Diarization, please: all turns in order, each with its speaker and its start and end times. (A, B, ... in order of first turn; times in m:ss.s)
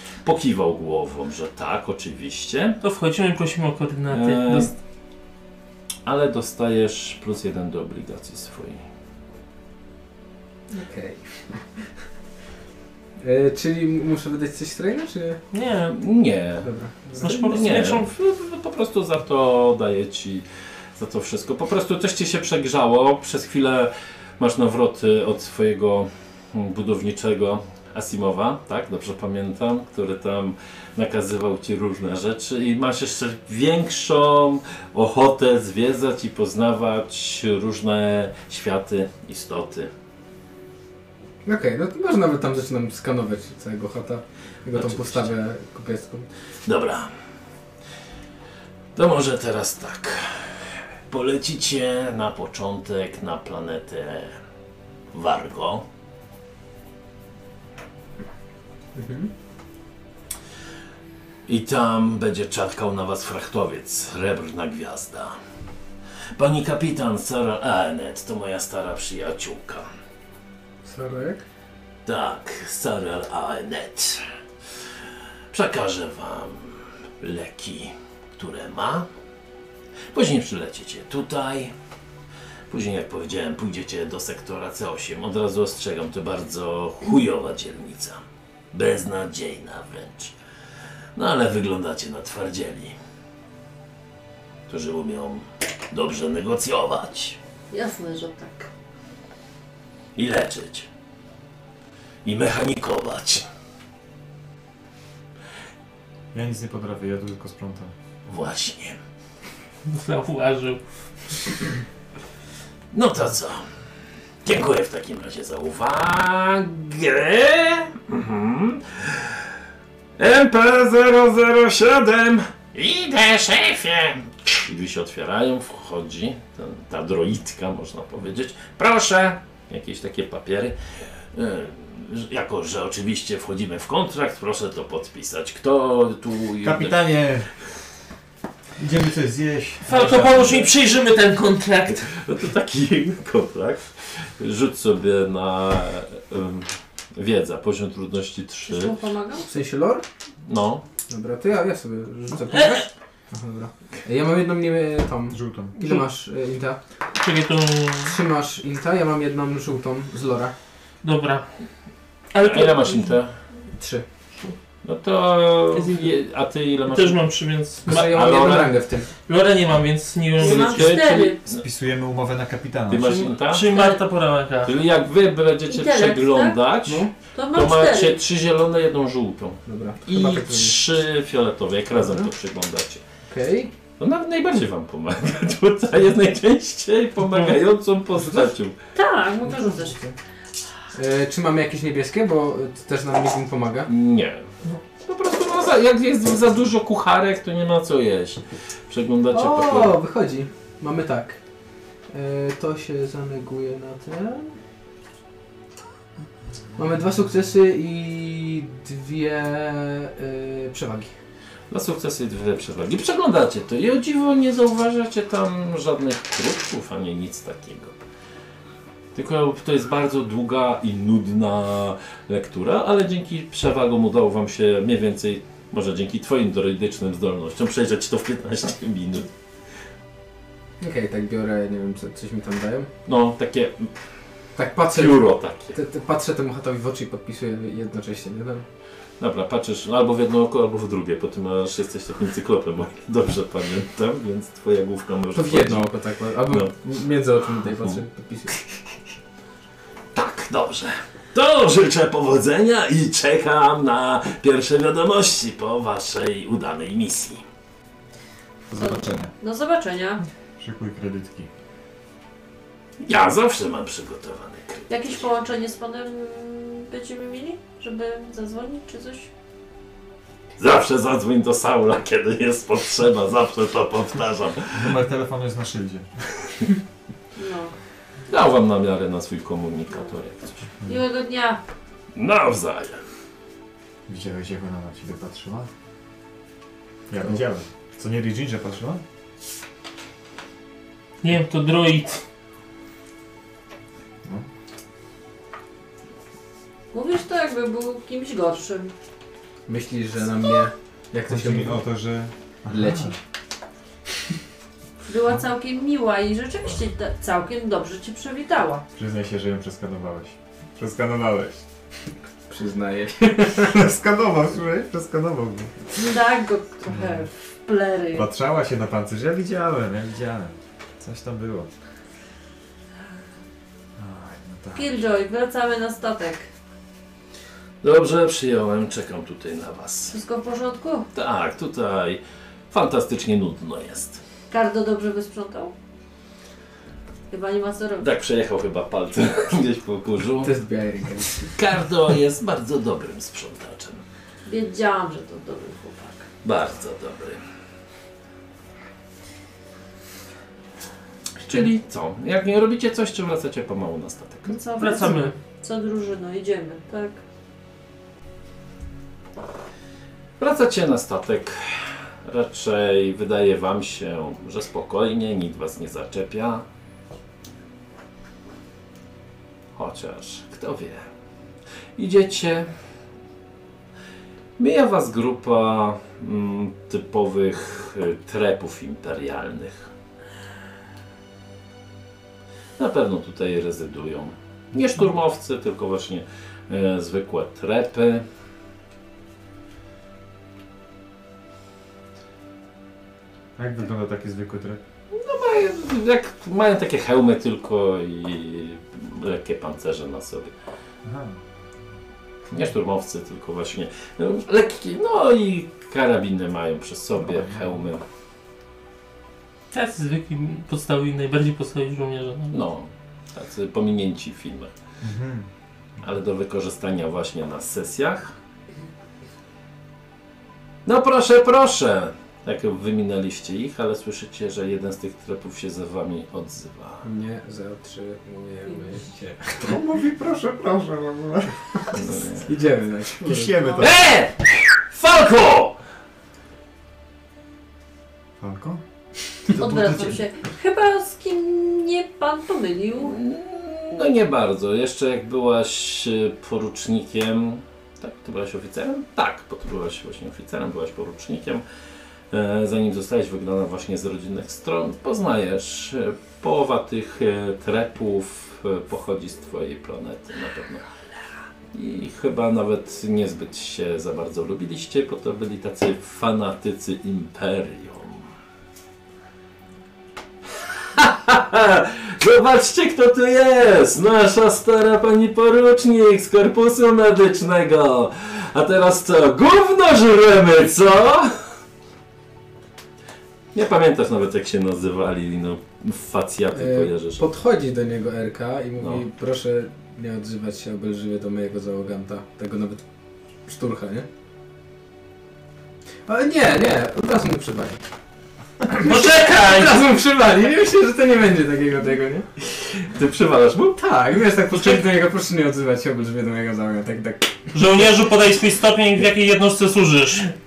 0:00.2-0:02.8 A
0:02.8-0:04.7 B
0:04.1-0:04.7 A
0:06.1-0:08.8 A
0:10.7-0:11.7 C
0:13.2-0:15.4 C
0:15.5-0:16.0 B
0:15.9-0:20.4 A
0:16.6-0:17.3 C
0:17.2-0:18.1 B
0:21.0-0:39.9 A
0:41.4-0:46.3 C
0:44.7-0:45.3 A
0:46.7-0:47.1 A
0:49.0-0:50.6 A
0:51.1-0:54.4 A
0:55.1-0:55.8 A
0:59.0-0:59.3 C
1:01.5-1:05.4 A
1:06.4-1:09.8 A
1:10.8-1:11.4 C
1:12.1-1:14.2 A
1:15.5-1:19.1 A
1:20.1-1:21.7 A
1:22.7-1:28.2 A
1:28.7-1:30.3 A
1:31.2-1:33.0 A
1:34.7-1:37.4 A
1:37.7-1:38.7 D
1:40.2-1:40.9 A
1:42.2-1:43.5 A
1:46.3-1:47.9 E
1:48.3-1:49.0 A
1:49.9-1:50.8 B
1:52.9-1:53.6 A
1:54.4-1:59.4 A
2:00.2-2:10.8 A
2:11.3-2:17.0 A
2:16.6-2:17.5 E
2:18.8-2:20.7 E
2:19.8-2:22.0 B
2:20.2-2:20.7 A
2:21.9-2:29.0 A
2:28.7-2:29.5 D
2:29.4-2:30.0 C
2:30.4-2:30.8 A
2:31.1-2:36.8 C
2:32.5-2:32.8 B
2:35.3-2:35.8 E
2:35.8-2:36.0 B
2:37.2-2:38.2 B
2:38.1-2:40.5 C
2:41.0-2:41.5 B
2:42.3-2:43.2 B
2:42.4-2:43.3 A
2:43.8-2:44.0 C
2:44.8-2:47.2 A
2:45.7-2:46.2 B
2:46.9-2:48.3 B
2:47.9-2:48.8 A
2:47.9-2:49.1 C
2:49.2-2:51.0 B
2:50.4-2:51.6 A
2:50.4-2:51.4 D
2:51.5-2:53.2 E
2:52.9-2:54.0 A
2:53.0-2:54.7 B
2:54.6-3:03.0 A
2:55.7-2:56.6 D
2:56.8-2:57.1 C
2:57.3-2:58.2 D
2:59.7-3:00.8 C
3:02.0-3:02.3 C
3:03.2-3:03.7 C
3:04.0-3:08.8 A
3:07.3-3:07.6 B
3:08.2-3:08.5 C
3:09.0-3:10.1 D
3:09.4-3:10.2 C
3:10.9-3:13.9 C
3:13.9-3:14.5 A
3:15.0-3:20.0 A
3:19.3-3:21.4 C
3:22.1-3:24.5 C
3:26.8-3:31.1 C
3:31.7-3:38.0 A
3:39.2-3:49.3 A
3:50.8-3:52.9 C
3:53.1-3:53.9 A
3:54.6-3:58.7 C
3:54.9-3:55.8 A
3:59.2-4:05.9 A
4:05.3-4:08.6 C
4:06.5-4:06.7 A
4:10.1-4:17.4 A
4:18.7-4:19.3 E
4:18.8-4:20.2 D
4:20.6-4:21.5 E
4:23.0-4:25.2 A
4:24.9-4:29.3 D
4:30.6-4:35.0 A
4:34.7-4:36.1 E
4:37.4-4:37.7 D
4:38.3-4:40.6 A
4:40.8-4:41.6 D
4:42.2-4:43.0 A
4:44.1-4:45.7 E
4:47.1-4:49.0 E
4:51.2-4:52.2 B
4:56.9-4:58.9 D
4:59.7-5:01.8 C
5:01.3-5:03.2 E
5:02.7-5:03.2 C
5:05.0-5:08.8 D
5:09.0-5:11.6 E
5:12.5-5:13.8 C
5:13.6-5:15.7 E
5:16.0-5:18.3 D
5:16.9-5:17.3 E
5:18.1-5:21.7 E
5:24.0-5:24.9 E
5:24.7-5:26.5 D
5:27.8-5:30.2 A
5:30.1-5:31.1 D
5:31.1-5:34.2 A
5:34.5-5:35.7 D
5:37.3-5:38.1 D
5:38.0-5:40.5 A
5:40.4-5:41.5 C
5:41.5-5:44.0 A
5:44.4-5:46.3 D
5:46.4-5:47.4 A
5:51.4-5:54.6 A
5:54.5-5:57.2 D
5:54.8-5:55.3 B
6:00.4-6:06.6 A
6:09.8-6:11.1 A
6:12.0-6:12.7 A
6:14.6-6:19.9 A
6:22.8-6:28.3 A
6:33.6-6:34.8 E
6:35.1-6:40.5 A
6:41.0-6:41.4 E
6:42.5-6:48.0 A
6:47.2-6:47.8 E
6:49.7-6:52.6 B
6:52.5-6:54.7 A
6:55.0-6:55.5 E
6:56.0-6:58.4 A
7:00.8-7:07.1 A
7:07.0-7:09.7 C
7:09.6-7:11.8 E
7:11.9-7:12.5 A
7:12.3-7:13.8 C
7:13.2-7:14.0 E
7:13.8-7:15.8 A
7:18.4-7:18.8 E
7:19.4-7:20.2 E
7:19.5-7:23.2 D
7:23.0-7:31.6 A
7:32.3-7:40.8 A
7:41.7-7:48.3 A
7:50.6-8:01.4 A
8:03.5-8:07.2 A
8:06.5-8:12.8 C
8:08.8-8:09.0 A
8:13.5-8:14.1 C
8:16.1-8:17.8 C
8:18.7-8:22.3 C
8:18.7-8:19.8 B
8:22.8-8:23.8 A
8:23.8-8:27.5 C
8:24.5-8:24.8 B
8:27.5-8:30.3 B